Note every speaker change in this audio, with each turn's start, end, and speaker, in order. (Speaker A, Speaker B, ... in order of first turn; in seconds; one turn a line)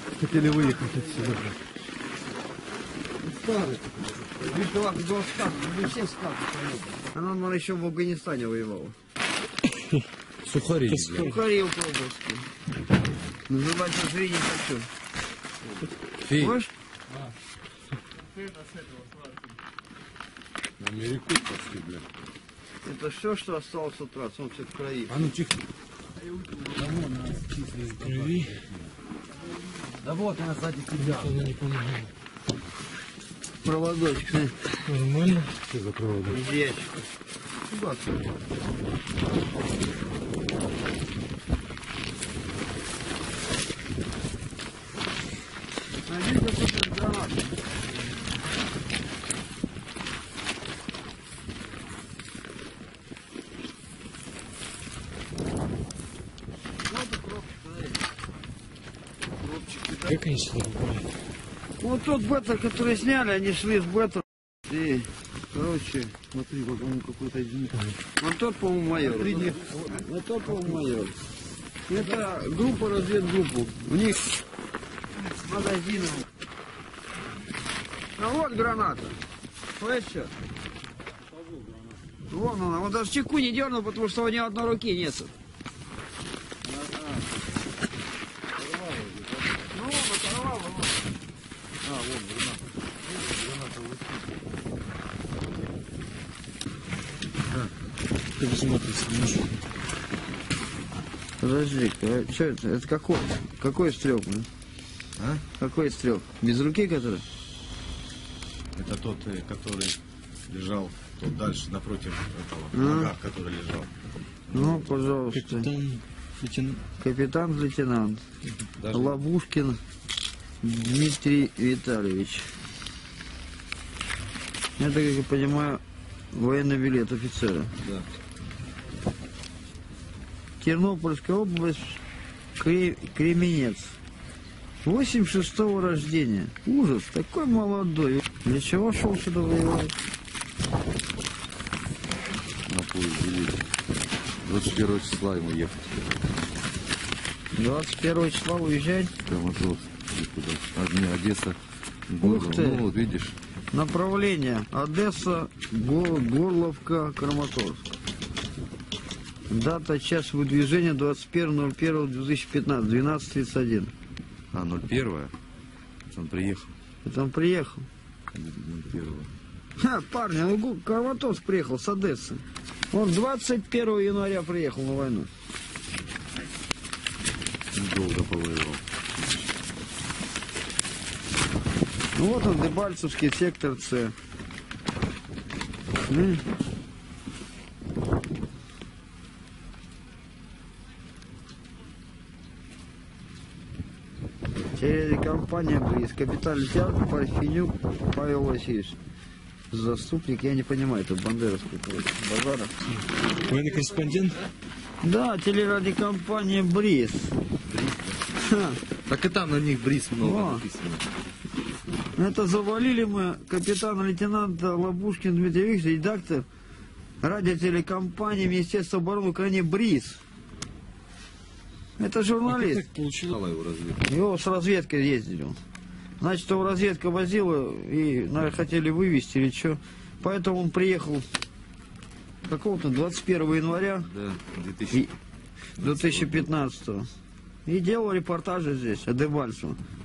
Speaker A: 0.2-1.4
Speaker B: 4.3-8.9
Speaker A: 10.4-11.3
Speaker C: 10.9-11.4
Speaker B: 11.2-12.4
Speaker B: 13.5-14.9
Speaker A: 16.2-16.6
Speaker B: 16.3-16.7
Speaker A: 20.8-22.0
Speaker B: 22.8-25.3
Speaker A: 25.1-25.5
Speaker A: 26.8-28.5
Speaker C: 28.0-28.6
Speaker A: 30.0-31.3
Speaker C: 30.9-32.1
Speaker B: 33.6-34.8
Speaker C: 34.8-35.5
Speaker A: 35.8-36.3
Speaker B: 36.2-37.0
Speaker B: 46.0-47.5
Speaker B: 56.9-57.9
Speaker B: 59.5-60.0
Speaker C: 60.0-61.1
Speaker B: 61.8-71.2
Speaker A: 69.2-69.8
Speaker B: 71.9-74.4
Speaker B: 75.2-76.3
Speaker B: 78.2-79.2
Speaker B: 79.8-80.3
Speaker B: 82.3-85.3
Speaker A: 88.7-89.1
Speaker B: 89.7-91.0
Speaker A: 91.9-92.4
Speaker C: 98.4-99.6
Speaker B: 101.4-104.5
Speaker A: 105.2-105.4
Speaker B: 105.6-107.2
Speaker A: 108.7-110.0
Speaker A: 110.5-113.9
Speaker B: 112.7-113.1
Speaker B: 114.5-115.7
Speaker A: 114.5-114.8
Speaker C: 115.3-116.8
Speaker B: 117.0-118.2
Speaker A: 118.8-119.2
Speaker B: 118.9-119.8
Speaker B: 120.6-122.5
Speaker B: 124.8-125.8
Speaker B: 126.3-127.7
Speaker B: 130.6-132.0
Speaker B: 132.6-134.0
Speaker B: 134.8-139.9
Speaker A: 142.7-143.6
Speaker A: 144.4-146.2
Speaker B: 147.5-149.1
Speaker A: 149.3-153.3
Speaker B: 152.2-152.8
Speaker B: 153.7-157.8
Speaker B: 159.5-163.9
Speaker A: 164.5-165.3
Speaker A: 166.1-166.7
Speaker B: 167.0-167.9
Speaker A: 168.3-169.3
Speaker B: 169.8-175.3
Speaker A: 177.7-178.8
Speaker B: 182.1-184.1
Speaker B: 186.1-186.4
Speaker B: 194.7-199.0
Speaker B: 199.7-202.7
Speaker C: 203.0-204.4
Speaker B: 205.0-207.3
Speaker A: 207.7-208.2
Speaker B: 208.3-208.8
Speaker A: 209.1-211.1
Speaker B: 210.2-210.7
Speaker B: 212.2-216.4
Speaker B: 217.2-220.2
Speaker B: 222.0-222.8
Speaker C: 222.9-223.2
Speaker A: 222.9-224.0
Speaker B: 224.0-225.6
Speaker B: 226.2-231.2
Speaker B: 232.4-234.1
Speaker A: 234.1-235.1
Speaker B: 235.8-237.1
Speaker A: 235.9-236.4
Speaker B: 237.7-239.8